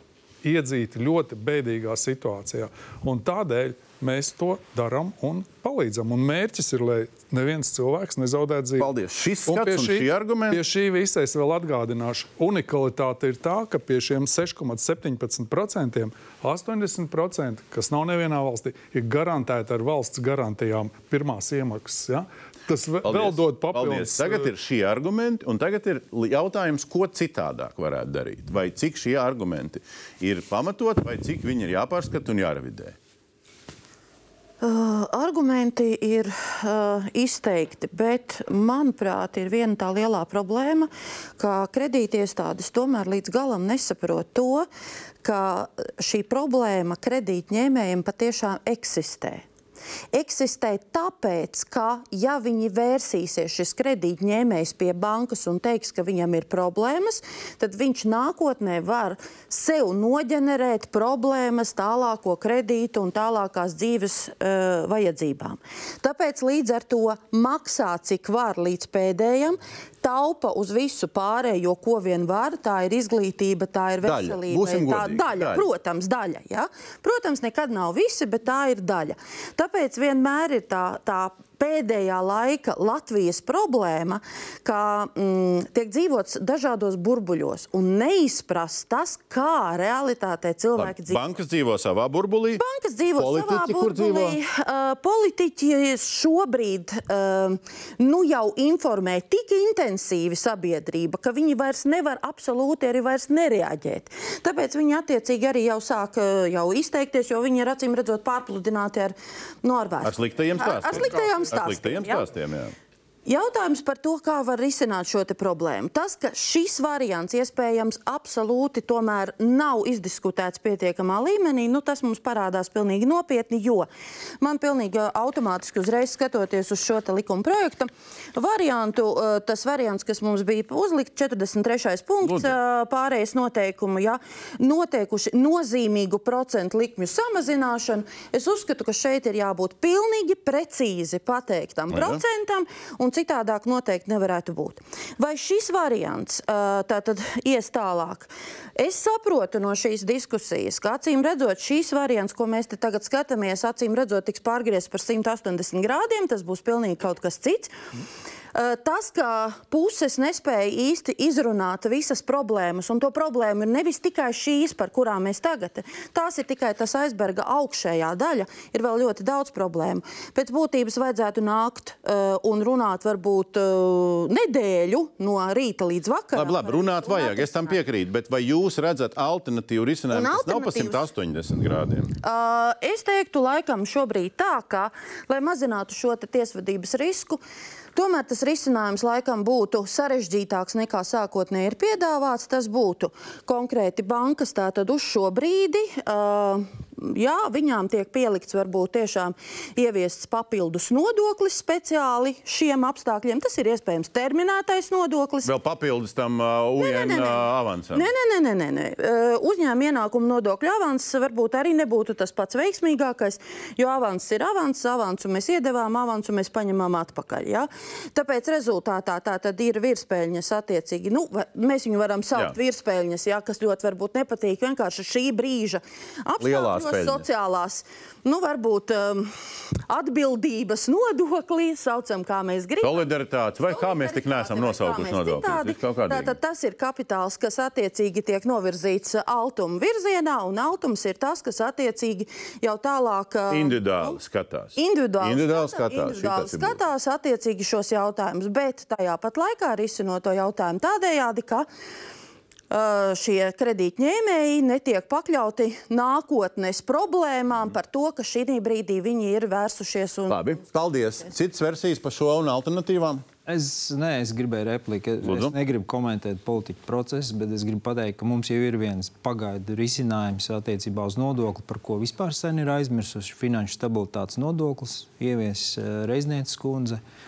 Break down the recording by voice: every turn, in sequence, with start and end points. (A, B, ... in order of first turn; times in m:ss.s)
0:00.4-0:08.9 A
0:08.8-0:10.6 B
0:09.5-0:24.5 A
0:23.0-0:32.9 B
0:34.6-0:44.7 C
0:45.2-0:49.4 C
0:50.1-1:31.2 C
1:14.0-1:15.7 B
1:30.8-1:32.6 B
1:32.6-1:52.3 C
1:33.2-1:34.4 B
1:50.0-1:52.7 B
1:53.2-2:03.9 C
2:04.4-2:37.7 C
2:12.2-2:12.5 B
2:21.9-2:22.2 B
2:38.5-2:57.7 C
2:56.3-3:02.1 B
3:00.1-3:01.1 C
3:02.2-3:07.4 C
3:07.9-3:25.5 C
3:25.4-3:28.1 B
3:26.8-3:49.3 C
3:46.4-3:47.2 B
3:49.9-3:53.1 C
3:52.8-3:56.4 B
3:53.6-4:04.2 C
4:03.5-4:06.8 B
4:04.8-4:11.7 C
4:12.7-4:20.6 C
4:20.3-4:23.2 B
4:23.4-4:37.0 D
4:25.2-4:25.5 B